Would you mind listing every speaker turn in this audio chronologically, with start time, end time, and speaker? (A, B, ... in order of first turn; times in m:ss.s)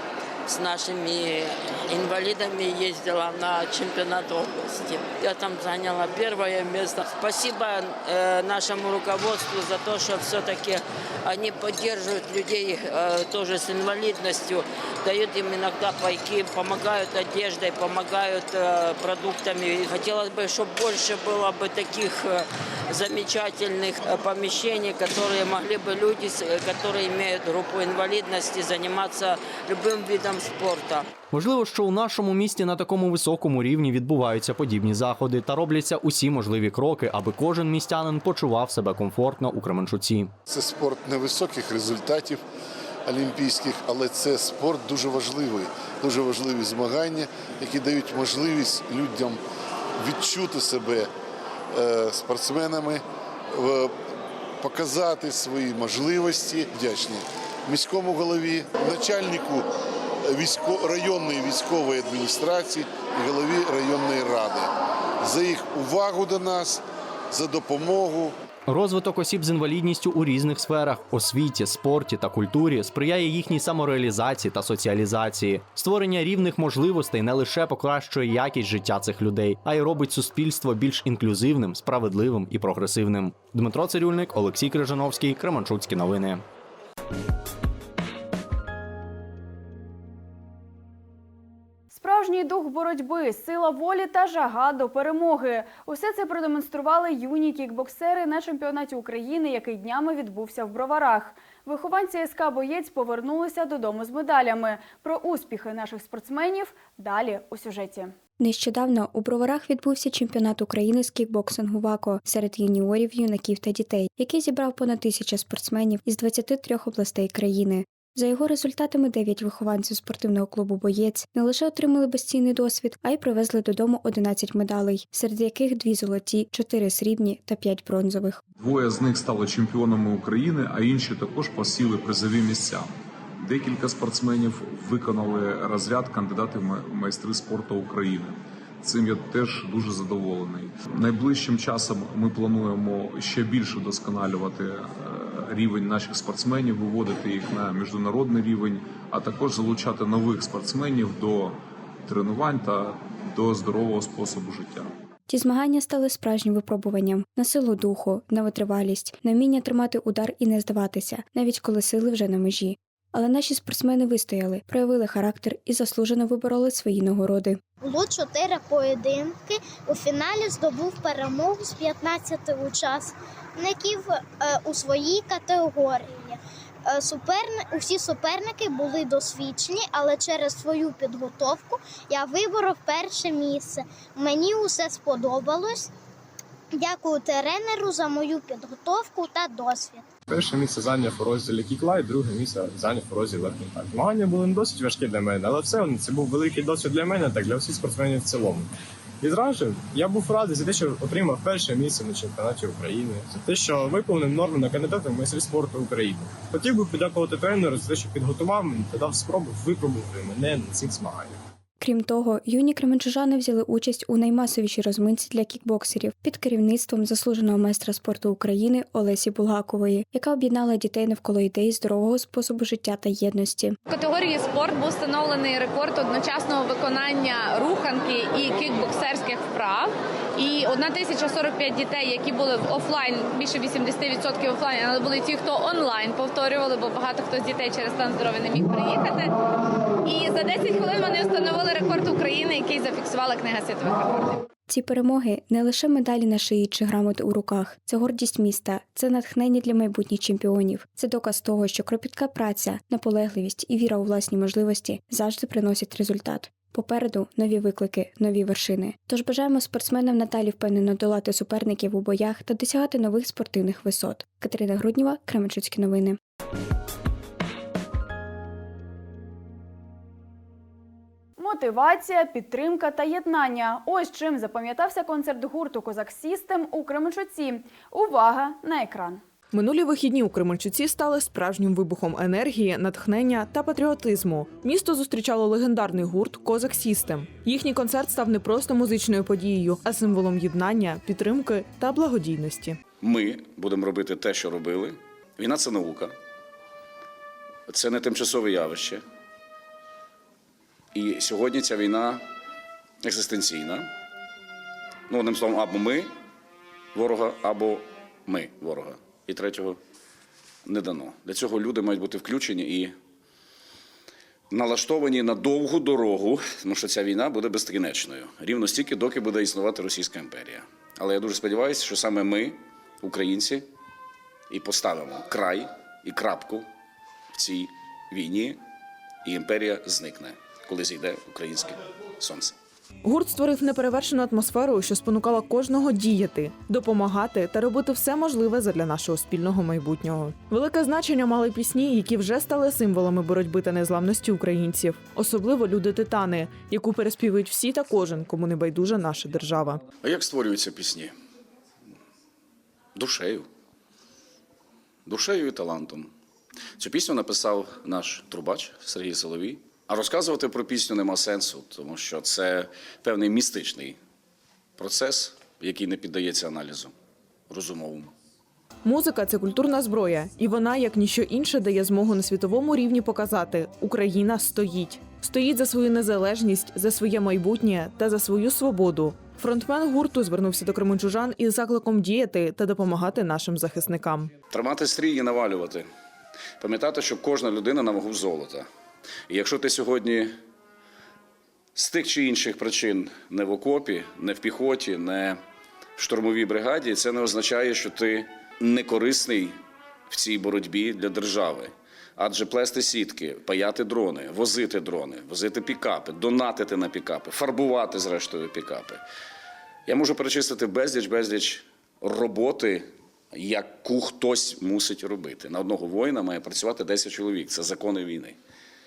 0:00.5-0:31.0 A
0:31.3-0:40.3 B
0:40.5-0:42.4 C
0:43.1-0:49.4 C
0:50.0-0:51.1 C
0:51.7-0:53.9 C
0:54.6-0:59.7 C
1:00.2-1:04.7 C
1:05.2-1:08.3 C
1:08.7-1:26.4 B
1:31.9-1:48.2 D
1:48.4-2:08.4 E
2:08.6-2:34.9 F
2:35.3-2:47.6 E
2:47.8-3:05.9 G
3:06.8-3:10.1 G
3:10.3-3:31.4 H
3:31.8-3:43.8 E
3:43.9-3:59.4 I
4:00.0-4:04.4 I
4:04.7-4:26.2 E
4:31.4-4:39.2 D
4:39.5-4:52.8 J
4:53.0-4:56.1 K
4:57.7-4:59.0 K
5:00.9-5:02.2 K
5:03.0-5:03.9 K
5:05.1-5:06.1 K
5:06.9-5:09.8 K
5:10.7-5:12.9 K
5:14.5-5:23.7 K
5:24.5-5:26.7 K
5:27.3-5:28.6 K
5:29.2-5:32.6 K
5:33.0-5:49.8 J
5:50.0-5:51.1 K
5:53.0-5:53.5 K
5:55.1-5:56.1 K
5:56.8-6:04.0 K
6:04.8-6:06.9 K
6:07.5-6:08.1 K
6:08.8-6:24.3 J
6:24.5-6:25.9 K
6:26.6-6:28.7 K
6:29.3-6:30.4 K
6:31.8-6:35.4 K
6:36.0-6:39.6 K
6:40.1-6:49.0 K
6:49.9-6:58.4 K